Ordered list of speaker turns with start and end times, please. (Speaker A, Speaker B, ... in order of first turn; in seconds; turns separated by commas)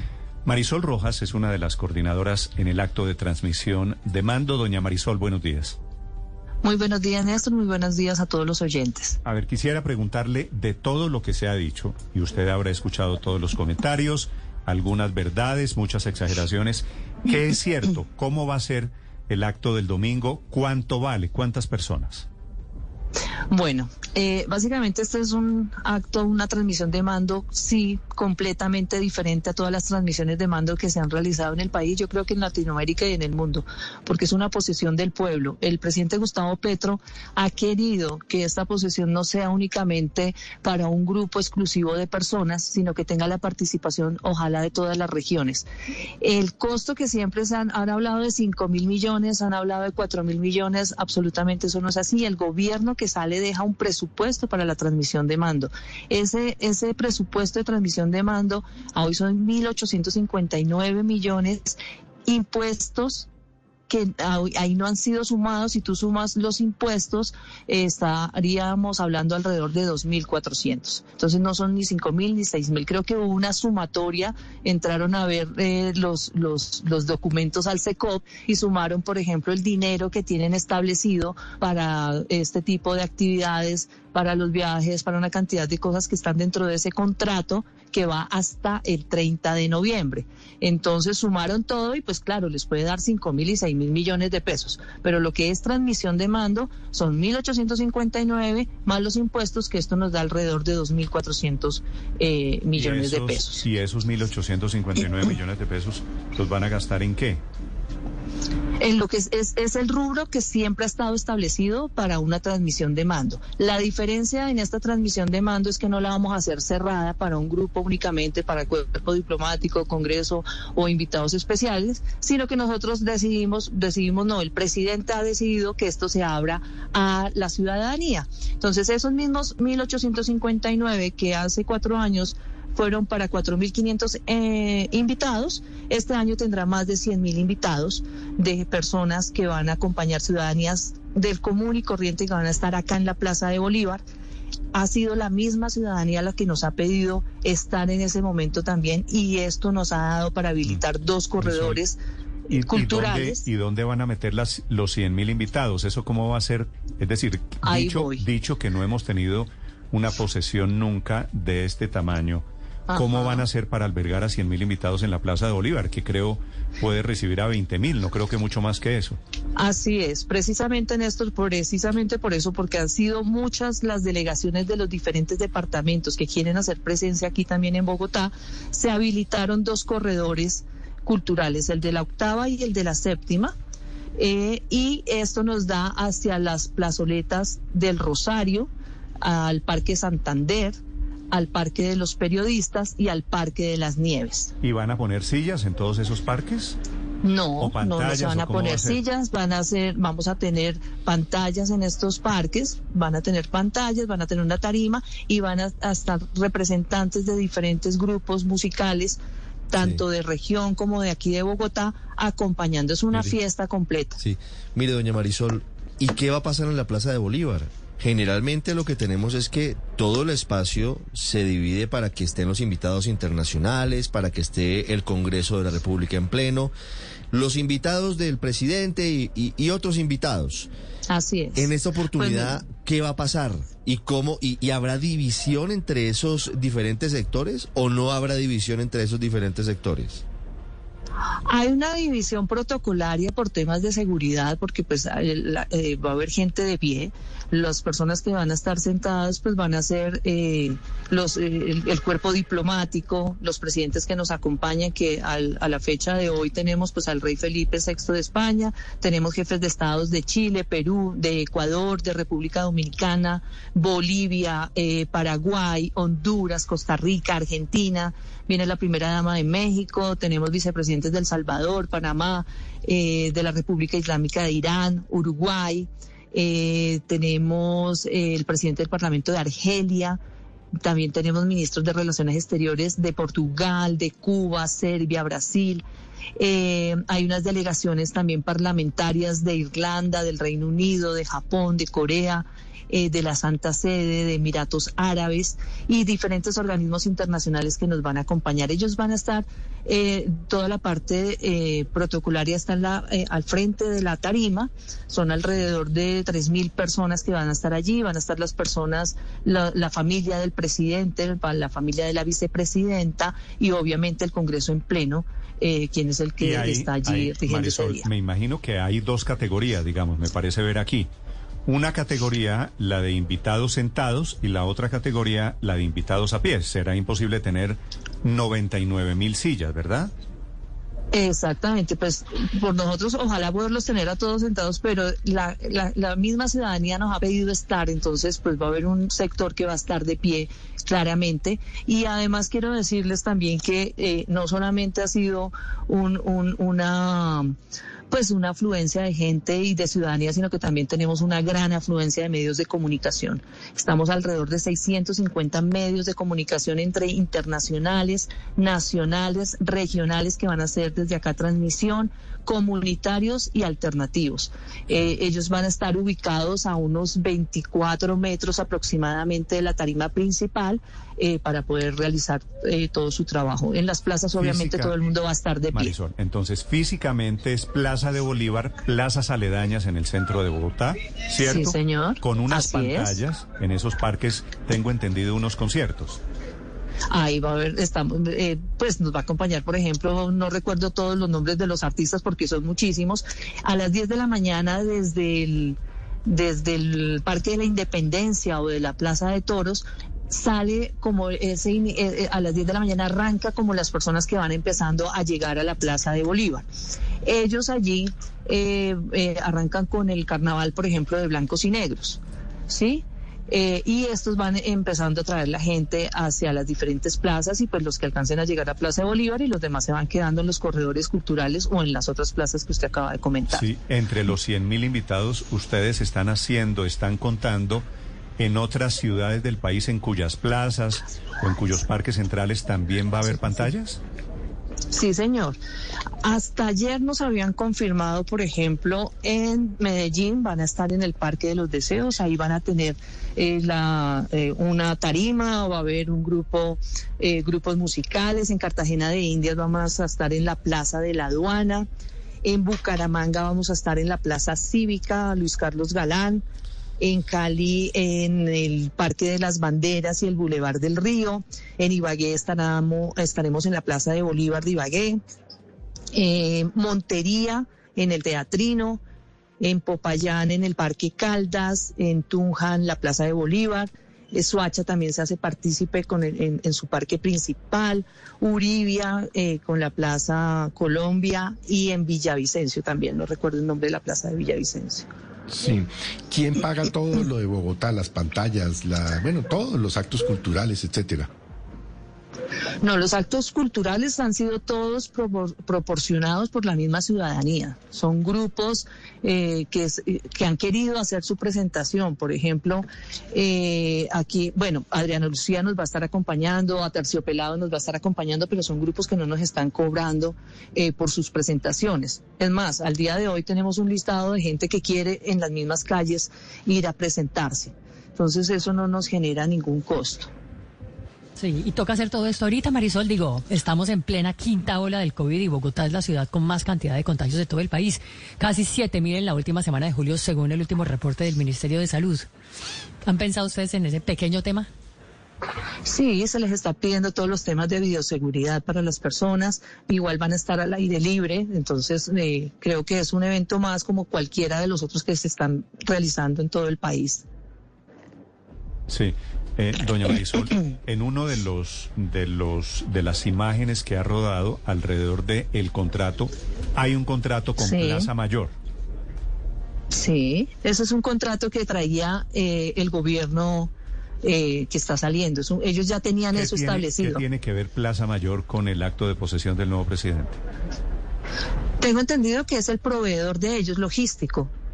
Speaker A: 0.5-5.8, Speaker B: 6.6-9.2, Speaker A: 9.2-22.3, Speaker B: 23.5-45.7, Speaker B: 46.2-63.3, Speaker B: 63.9-103.6, Speaker A: 102.8-107.4, Speaker B: 108.8-144.0, Speaker B: 144.7-152.0, Speaker A: 151.4-151.8, Speaker B: 152.5-153.4, Speaker A: 152.5-162.4, Speaker B: 157.6-158.2, Speaker B: 162.9-163.4, Speaker A: 162.9-169.2, Speaker B: 169.6-183.5, Speaker B: 184.2-188.7, Speaker B: 189.2-190.8, Speaker B: 191.3-194.5, Speaker A: 194.6-196.8, Speaker B: 197.2-209.2, Speaker A: 197.6-199.0, Speaker B: 209.7-214.2, Speaker C: 214.2-226.7, Speaker C: 227.3-230.7, Speaker B: 231.1-232.6, Speaker C: 231.6-240.2, Speaker B: 241.5-280.2, Speaker B: 280.8-285.8, Speaker B: 286.4-318.1, Speaker A: 316.4-321.1, Speaker A: 321.7-330.1, Speaker B: 331.1-347.5, Speaker B: 348.1-375.9, Speaker A: 374.4-374.9, Speaker A: 375.8-386.2, Speaker B: 381.4-383.2, Speaker B: 387.1-406.6, Speaker B: 407.2-423.7, Speaker A: 423.5-427.9, Speaker A: 428.4-434.0, Speaker B: 434.9-435.6, Speaker B: 436.2-451.9, Speaker B: 452.4-456.4, Speaker B: 457.0-465.2, Speaker B: 466.1-469.0, Speaker B: 469.6-485.1, Speaker D: 485.5-491.3, Speaker B: 492.8-520.3, Speaker E: 521.4-532.3, Speaker E: 533.0-534.7, Speaker B: 535.9-547.2, Speaker A: 548.9-558.5, Speaker B: 557.6-558.1, Speaker B: 559.9-563.7, Speaker B: 564.2-567.2, Speaker A: 566.3-570.4, Speaker B: 571.8-574.5